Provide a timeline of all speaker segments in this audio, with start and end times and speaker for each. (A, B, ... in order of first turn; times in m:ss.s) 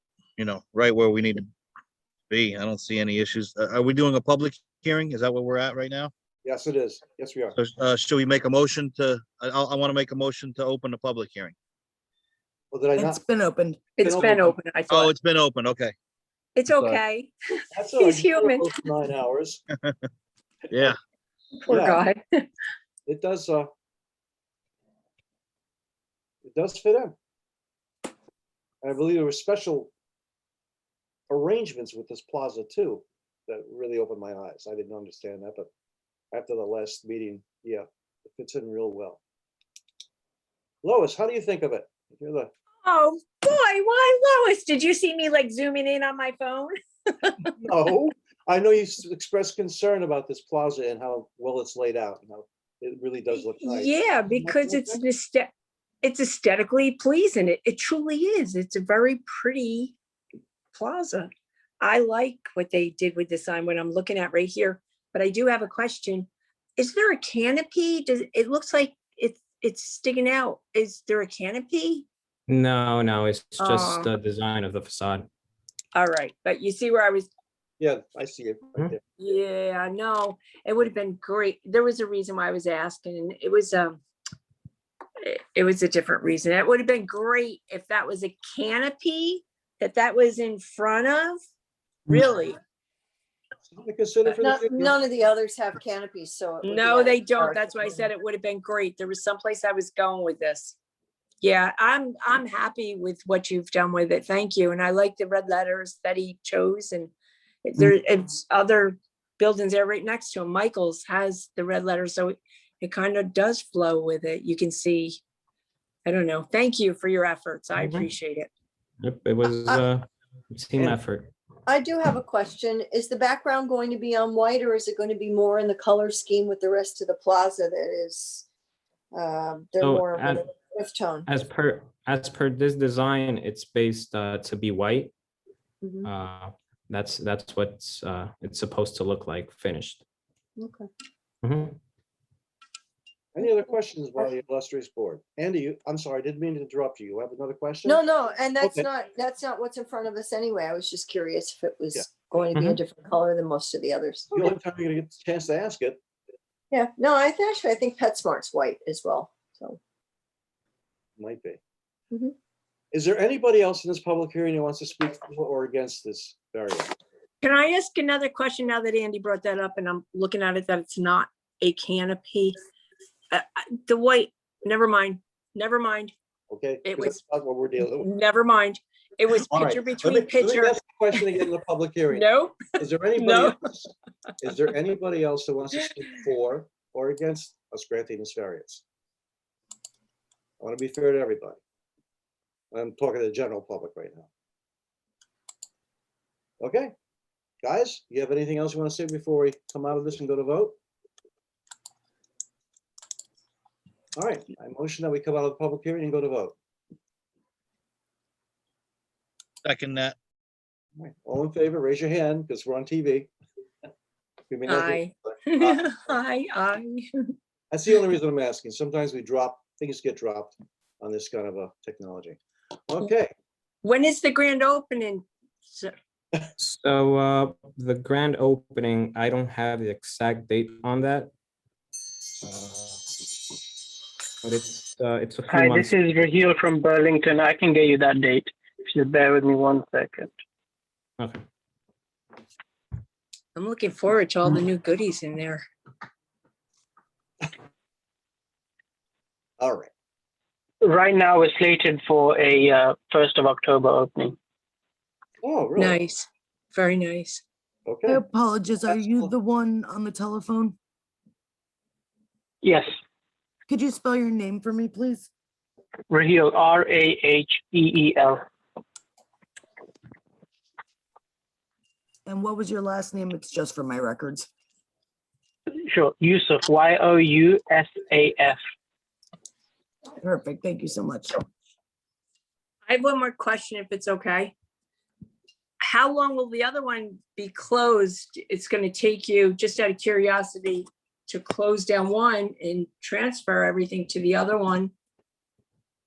0:00.4-0:01.5 A
0:02.3-0:06.1 A
0:06.4-0:07.5 B
0:07.6-0:11.5 A
0:12.7-0:13.2 B
0:13.0-0:13.9 C
0:13.9-0:15.1 D
0:14.0-0:14.6 B
0:14.9-0:15.9 A
0:16.6-0:18.8 D
0:17.7-0:19.6 B
0:21.6-0:22.5 D
0:21.7-0:22.0 B
0:23.0-0:23.7 B
0:26.4-0:27.2 B
0:28.8-0:29.9 B
0:31.3-0:35.7 B
0:36.3-0:39.2 B
0:40.8-0:42.5 B
0:42.8-0:47.5 D
0:47.6-0:55.0 B
0:53.3-0:55.5 D
0:56.0-1:00.0 D
1:00.7-1:01.3 D
1:01.8-1:12.1 D
1:12.5-1:15.3 E
1:13.6-1:14.1 D
1:15.9-1:17.3 D
1:17.8-1:19.0 B
1:19.2-1:24.0 D
1:25.2-1:31.4 D
1:32.1-1:32.6 D
1:33.7-1:35.0 B
1:34.4-1:38.1 F
1:36.6-1:40.8 D
1:41.4-1:47.1 D
1:47.6-1:55.2 D
1:56.0-1:58.5 D
1:57.8-1:58.0 E
1:59.0-2:01.3 E
2:01.7-2:08.4 F
2:09.1-2:11.3 F
2:09.8-2:10.5 E
2:11.2-2:15.1 E
2:15.8-2:16.1 F
2:16.0-2:20.0 E
2:20.6-2:20.9 F
2:21.4-2:21.8 E
2:23.3-2:28.0 B
2:27.8-2:34.5 F
2:28.6-2:28.9 B
2:34.3-2:36.0 B
2:36.7-2:39.8 F
2:41.2-2:41.6 B
2:42.9-2:46.9 B
2:47.4-2:52.6 D
2:53.3-2:56.1 D
2:56.5-2:58.1 B
2:56.8-2:57.2 D
2:57.9-3:01.4 D
2:59.5-3:03.7 B
3:02.1-3:03.6 D
3:04.4-3:08.8 B
3:10.6-3:11.6 B
3:12.7-3:14.3 B
3:16.6-3:16.9 B
3:17.6-3:20.8 B
3:24.2-3:26.5 B
3:29.6-3:30.2 E
3:31.0-3:33.3 B
3:34.5-3:36.0 B
3:34.7-3:37.3 D
3:37.7-3:43.3 B
3:43.8-3:45.9 D
3:46.6-3:51.3 E
3:52.4-3:53.0 E
3:54.4-3:55.9 E
3:55.5-4:00.3 G
4:03.6-4:05.6 D
4:09.6-4:09.9 B
4:10.8-4:14.4 G
4:15.4-4:16.0 B
4:15.8-4:17.4 D
4:17.8-4:18.2 B
4:18.1-4:20.8 C
4:22.6-4:22.9 G
4:23.7-4:25.3 C
4:26.1-4:28.4 G
4:32.2-4:34.5 C
4:35.9-4:38.6 G
4:40.2-4:41.4 C
4:42.9-4:44.5 D
4:45.8-4:54.9 D